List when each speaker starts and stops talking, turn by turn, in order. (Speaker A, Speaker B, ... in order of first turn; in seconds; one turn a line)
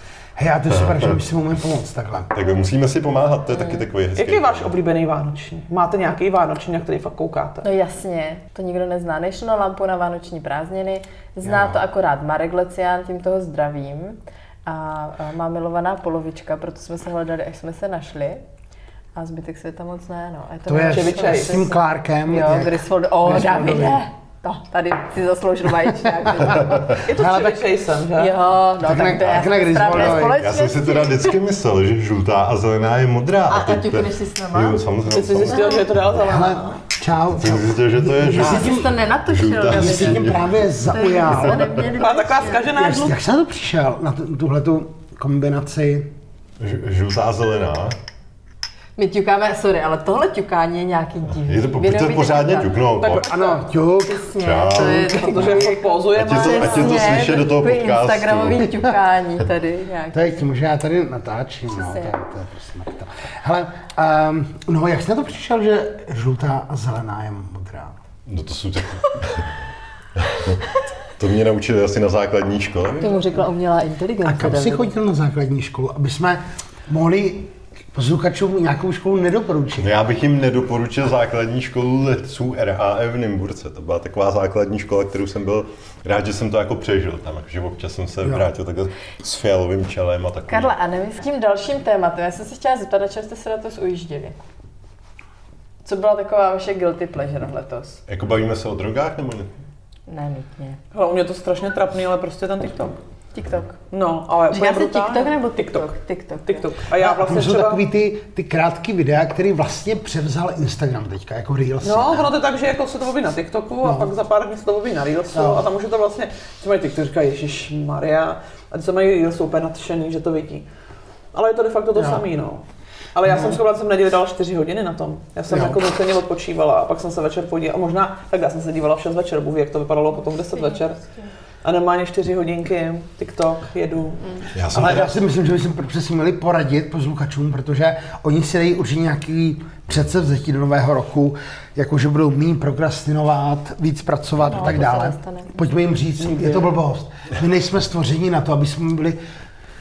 Speaker A: 0.4-2.3
Speaker B: 0.8-1.1
Speaker B: 2.3-4.7
Speaker C: 3.6-3.8
Speaker D: 4.1-7.7
Speaker C: 7.6-18.4
Speaker A: 11.4-11.7
Speaker C: 19.1-27.0
Speaker A: 20.7-24.0
Speaker D: 20.9-21.7
Speaker D: 27.0-28.4
Speaker A: 27.1-27.6
Speaker C: 28.2-31.4
Speaker A: 28.8-30.4
Speaker B: 29.9-36.2
Speaker C: 33.5-34.8
Speaker D: 35.1-36.8
Speaker C: 35.5-35.8
Speaker A: 36.2-38.9
Speaker B: 37.3-40.6
Speaker C: 38.3-40.4
Speaker A: 39.7-41.8
Speaker C: 40.9-42.7
Speaker B: 41.4-41.6
Speaker D: 42.0-43.2
Speaker A: 42.5-46.1
Speaker B: 46.6-48.0
Speaker C: 49.0-52.8
Speaker B: 51.4-53.4
Speaker D: 53.0-53.6
Speaker A: 53.1-54.9
Speaker C: 54.0-60.5
Speaker B: 54.3-58.8
Speaker D: 54.8-57.4
Speaker A: 60.1-68.0
Speaker C: 61.7-62.1
Speaker B: 68.2-69.5
Speaker B: 70.2-70.6
Speaker B: 71.2-73.3
Speaker C: 73.0-74.9
Speaker A: 74.2-79.9
Speaker B: 79.8-90.7
Speaker C: 90.5-94.4
Speaker C: 95.8-98.0
Speaker B: 98.1-99.5
Speaker C: 100.1-100.8
Speaker D: 100.9-103.0
Speaker C: 103.3-103.8
Speaker D: 103.9-105.9
Speaker C: 104.5-106.7
Speaker D: 106.5-107.8
Speaker A: 106.9-112.3
Speaker D: 111.8-120.6
Speaker A: 113.8-114.1
Speaker A: 115.3-115.6
Speaker D: 121.3-122.6
Speaker A: 122.0-122.2
Speaker D: 123.1-131.0
Speaker A: 123.2-123.6
Speaker A: 125.5-125.8
Speaker C: 130.4-131.3
Speaker D: 131.6-134.5
Speaker B: 134.5-135.2
Speaker A: 134.7-149.2
Speaker C: 144.4-145.6
Speaker D: 146.2-146.7